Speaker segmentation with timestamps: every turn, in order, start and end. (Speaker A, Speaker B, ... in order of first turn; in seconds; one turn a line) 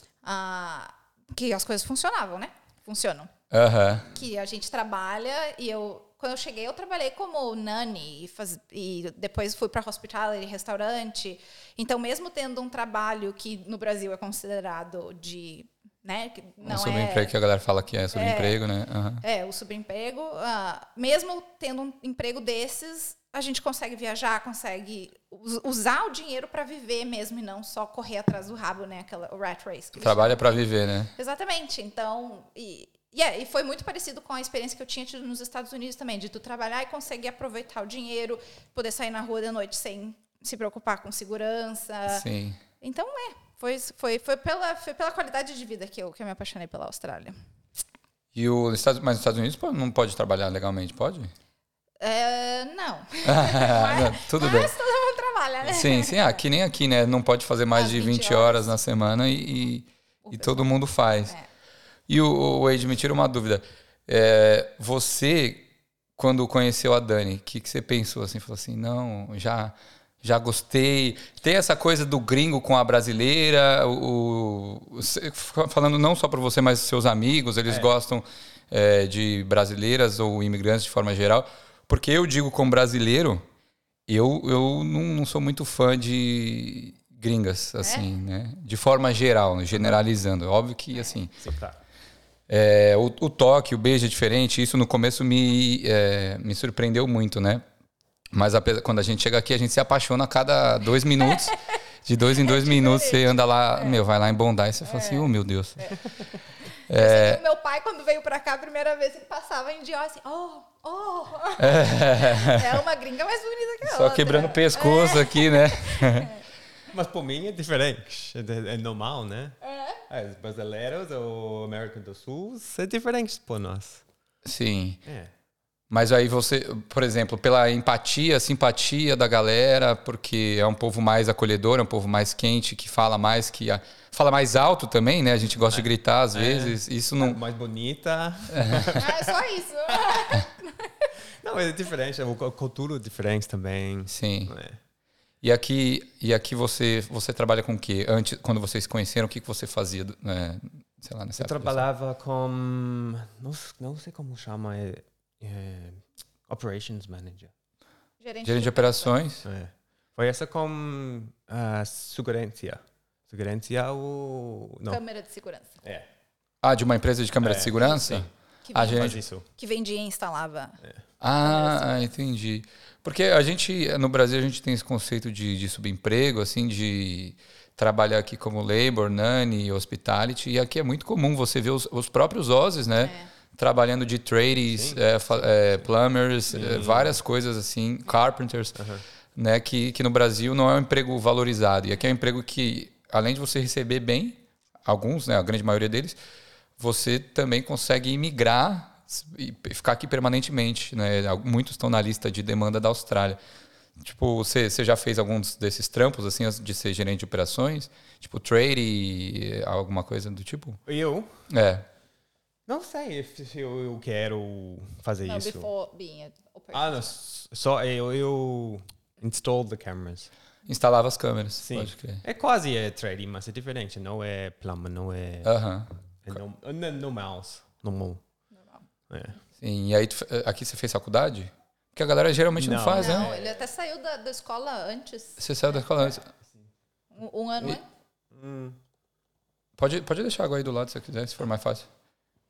Speaker A: 0.2-3.3
Speaker B: 3.5-4.1
Speaker A: 4.1-17.3
Speaker B: 16.6-19.2
Speaker A: 18.1-18.6
Speaker A: 19.2-42.2
Speaker B: 29.9-31.1
Speaker B: 42.1-42.6
Speaker A: 42.8-47.4
Speaker B: 48.3-51.3
Speaker A: 52.0-56.4
Speaker B: 53.2-54.7
Speaker B: 55.6-61.3
Speaker A: 57.7-58.7
Speaker A: 60.2-61.5
Speaker B: 62.1-83.4
Speaker B: 84.1-91.3
Speaker A: 87.8-88.1
Speaker C: 91.4-91.8
Speaker B: 92.5-97.6
Speaker B: 98.3-105.9
Speaker A: 101.3-101.6
Speaker A: 102.4-104.0
Speaker A: 104.9-106.0
Speaker A: 106.8-116.4
Speaker B: 106.9-107.4
Speaker B: 111.6-112.8
Speaker B: 113.8-116.3
Speaker C: 116.9-124.0
Speaker A: 119.6-120.0
Speaker B: 124.4-125.0
Speaker C: 125.0-125.3
Speaker B: 125.9-137.4
Speaker C: 135.7-139.3
Speaker B: 138.5-138.9
Speaker A: 138.9-141.1
Speaker C: 139.9-140.2
Speaker C: 141.4-144.8
Speaker B: 144.1-144.5
Speaker B: 145.4-151.8
Speaker C: 151.4-157.5
Speaker A: 158.2-159.2
Speaker B: 158.4-159.4
Speaker C: 159.4-165.0
Speaker A: 164.9-165.8
Speaker B: 166.6-169.2
Speaker C: 167.4-168.3
Speaker A: 168.6-170.8
Speaker C: 168.8-169.4
Speaker B: 171.2-188.8
Speaker A: 171.4-172.1
Speaker A: 183.0-183.3
Speaker C: 184.7-185.8
Speaker C: 186.5-187.2
Speaker C: 188.7-189.0
Speaker B: 189.3-196.2
Speaker B: 196.8-203.4
Speaker B: 204.0-210.8
Speaker C: 210.9-211.3
Speaker B: 211.5-211.8
Speaker C: 212.7-215.7
Speaker A: 215.2-217.1
Speaker C: 216.7-220.3
Speaker B: 220.7-222.2
Speaker C: 221.6-225.5
Speaker B: 225.4-225.9
Speaker C: 226.2-228.2
Speaker A: 228.6-228.8
Speaker C: 229.1-229.4
Speaker B: 229.6-233.3
Speaker C: 232.6-233.7
Speaker A: 232.9-236.2
Speaker B: 235.4-236.3
Speaker A: 237.1-237.8
Speaker C: 238.3-238.8
Speaker B: 239.8-241.9